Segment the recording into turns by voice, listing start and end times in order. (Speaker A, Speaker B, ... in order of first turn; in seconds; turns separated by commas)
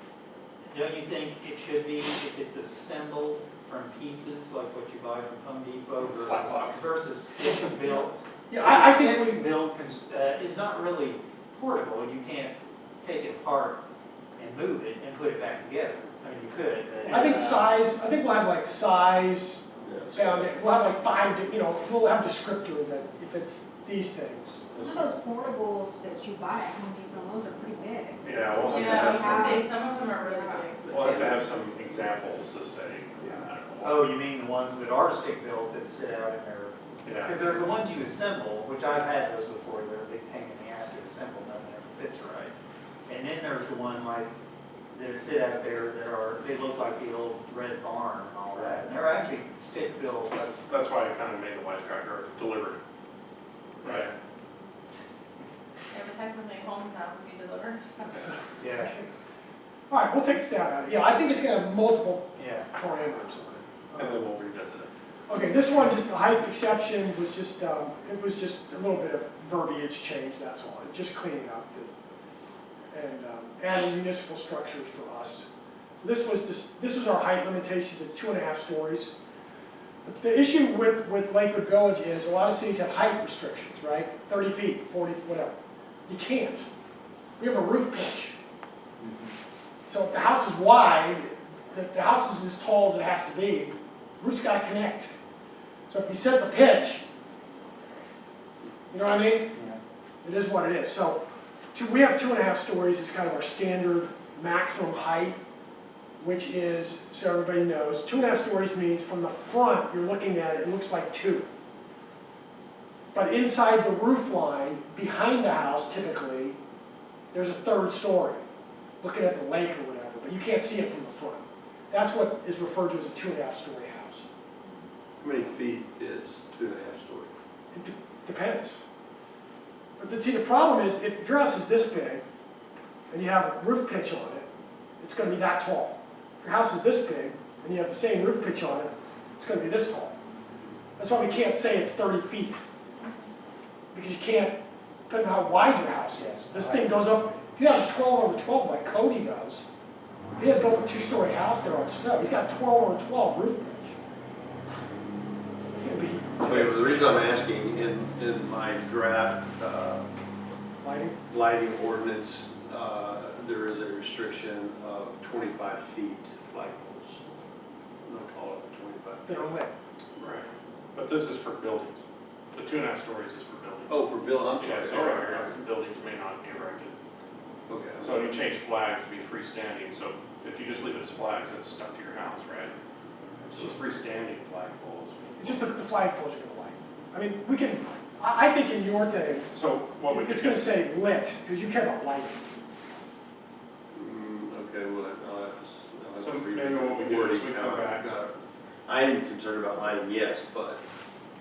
Speaker A: 0.7-13.8, Speaker B: 6.0-6.8, Speaker C: 8.5-9.4, Speaker A: 14.4-17.7, Speaker B: 17.1-17.6, Speaker C: 17.1-24.8, Speaker D: 19.8-20.5, Speaker E: 24.8-30.8, Speaker B: 28.2-29.5, Speaker F: 28.6-30.8, Speaker B: 30.8-34.0, Speaker D: 30.9-31.4, Speaker A: 33.8-42.5, Speaker B: 37.0-37.5, Speaker A: 43.1-44.3, Speaker A: 44.9-50.5, Speaker B: 50.4-52.8, Speaker B: 53.8-54.1, Speaker F: 55.9-58.3, Speaker A: 58.6-59.0, Speaker C: 58.6-59.0, Speaker C: 59.9-64.3, Speaker A: 62.4-62.7, Speaker B: 63.9-64.9, Speaker C: 65.3-71.9, Speaker C: 72.9-75.5, Speaker C: 76.0-79.1, Speaker C: 80.0-85.5, Speaker C: 86.1-86.7, Speaker C: 87.4-88.3, Speaker C: 89.9-95.1, Speaker C: 95.9-97.0, Speaker C: 98.9-99.5, Speaker A: 99.5-99.8, Speaker C: 100.2-101.2, Speaker C: 101.7-105.4, Speaker C: 106.2-111.5, Speaker C: 113.1-116.6, Speaker C: 117.3-118.4, Speaker C: 119.0-124.2, Speaker D: 125.2-127.3, Speaker C: 127.7-128.8, Speaker C: 130.0-132.2, Speaker C: 133.1-134.5, Speaker C: 135.0-140.2, Speaker C: 141.0-142.6, Speaker C: 143.9-144.6, Speaker C: 145.1-149.7, Speaker A: 146.1-147.1, Speaker C: 150.3-153.9, Speaker C: 155.8-157.3, Speaker D: 156.4-160.1, Speaker C: 160.8-161.2, Speaker D: 161.3-167.2, Speaker D: 168.0-169.4, Speaker C: 169.2-169.7, Speaker B: 170.2-176.9, Speaker D: 173.9-175.5, Speaker D: 177.7-178.1, Speaker B: 178.0-182.7, Speaker B: 183.4-185.6, Speaker C: 185.3-189.5, Speaker B: 189.5-190.8, Speaker C: 190.1-192.4, Speaker D: 193.9-198.3, Speaker B: 196.2-198.1, Speaker D: 198.8-200.8